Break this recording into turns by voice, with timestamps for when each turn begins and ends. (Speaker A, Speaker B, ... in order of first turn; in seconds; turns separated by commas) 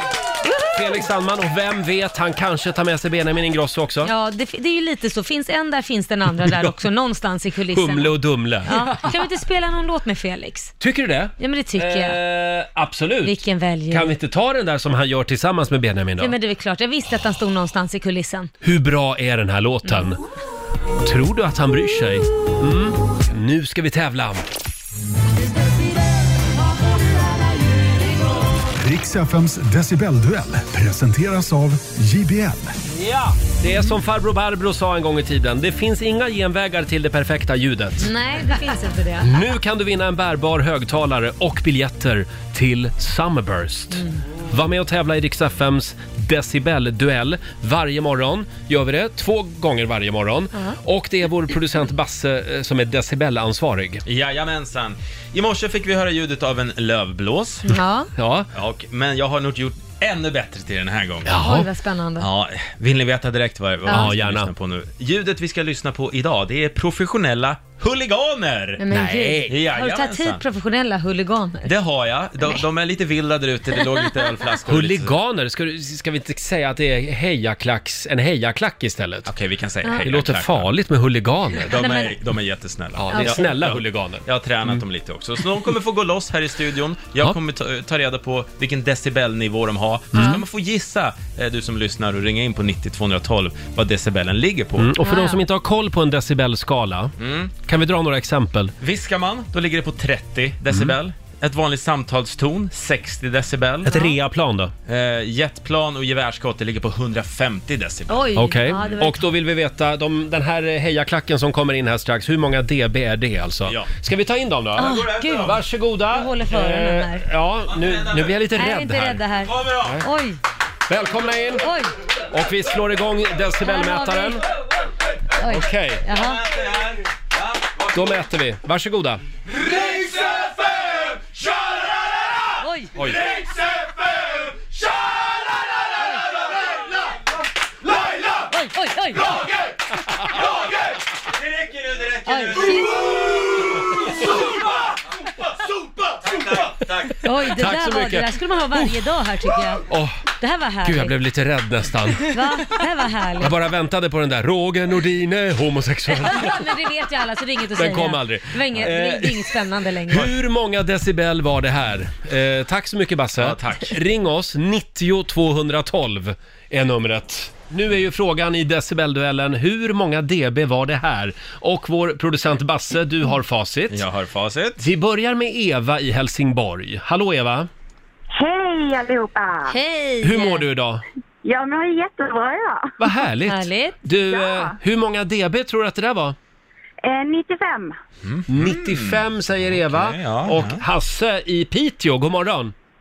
Speaker A: 0.4-1.0, Speaker B: 0.7-4.1, Speaker A: 4.0-8.1, Speaker B: 6.3-6.8, Speaker B: 7.7-8.7, Speaker A: 8.7-10.7, Speaker B: 10.8-16.4, Speaker A: 11.4-12.2, Speaker A: 13.2-14.1, Speaker A: 16.2-18.5, Speaker B: 18.6-20.2, Speaker B: 21.0-24.4, Speaker C: 28.8-32.7, Speaker B: 32.9-38.1, Speaker A: 38.0-39.3, Speaker B: 39.2-54.0, Speaker A: 43.9-44.2, Speaker D: 54.1-57.7, Speaker A: 57.7-58.1, Speaker B: 58.2-58.5, Speaker D: 58.5-61.4, Speaker B: 61.2-61.7, Speaker A: 61.3-62.3, Speaker D: 62.2-68.8, Speaker B: 63.9-64.5, Speaker A: 68.8-71.7, Speaker B: 68.9-69.6, Speaker D: 69.5-70.4, Speaker D: 71.7-75.1, Speaker B: 74.7-79.3, Speaker D: 79.3-80.7, Speaker B: 80.0-81.8, Speaker D: 81.7-94.9, Speaker A: 81.8-82.2, Speaker B: 83.0-84.8, Speaker A: 83.1-83.5, Speaker B: 90.1-90.4, Speaker B: 94.8-98.8, Speaker A: 95.0-95.4, Speaker D: 97.2-97.5, Speaker D: 98.8-104.1, Speaker B: 100.7-101.0, Speaker B: 103.8-104.7, Speaker D: 104.9-108.2, Speaker A: 108.1-109.2, Speaker B: 108.4-120.1, Speaker D: 113.7-113.9, Speaker A: 114.8-115.6, Speaker D: 114.8-115.5, Speaker A: 116.1-117.3, Speaker D: 117.7-118.4, Speaker A: 118.6-120.4, Speaker D: 119.5-120.0, Speaker B: 120.9-121.7, Speaker A: 121.6-121.9, Speaker B: 122.3-124.4, Speaker A: 123.6-124.4, Speaker A: 125.3-126.5, Speaker B: 125.4-126.1, Speaker D: 126.2-128.1, Speaker B: 127.9-129.2, Speaker D: 129.6-132.4, Speaker A: 132.6-132.9, Speaker B: 132.9-133.2, Speaker D: 133.0-135.6, Speaker D: 136.3-137.0, Speaker A: 138.5-139.3, Speaker B: 140.2-140.4, Speaker D: 140.3-144.9, Speaker A: 142.3-143.0, Speaker D: 145.7-147.2, Speaker A: 147.2-149.8, Speaker B: 147.3-148.9, Speaker B: 149.9-150.2, Speaker A: 150.4-151.1, Speaker B: 150.8-152.8, Speaker A: 152.3-153.6, Speaker B: 153.4-156.8, Speaker A: 156.1-160.3, Speaker B: 157.7-174.0, Speaker D: 163.4-164.0, Speaker D: 173.9-174.8, Speaker B: 174.8-177.7, Speaker E: 178.3-179.8, Speaker A: 179.7-180.7, Speaker B: 180.2-181.0, Speaker E: 181.4-182.9, Speaker B: 183.0-186.4, Speaker A: 183.5-184.0, Speaker E: 184.3-184.8, Speaker E: 187.0-188.0, Speaker D: 188.2-190.8, Speaker B: 188.5-192.7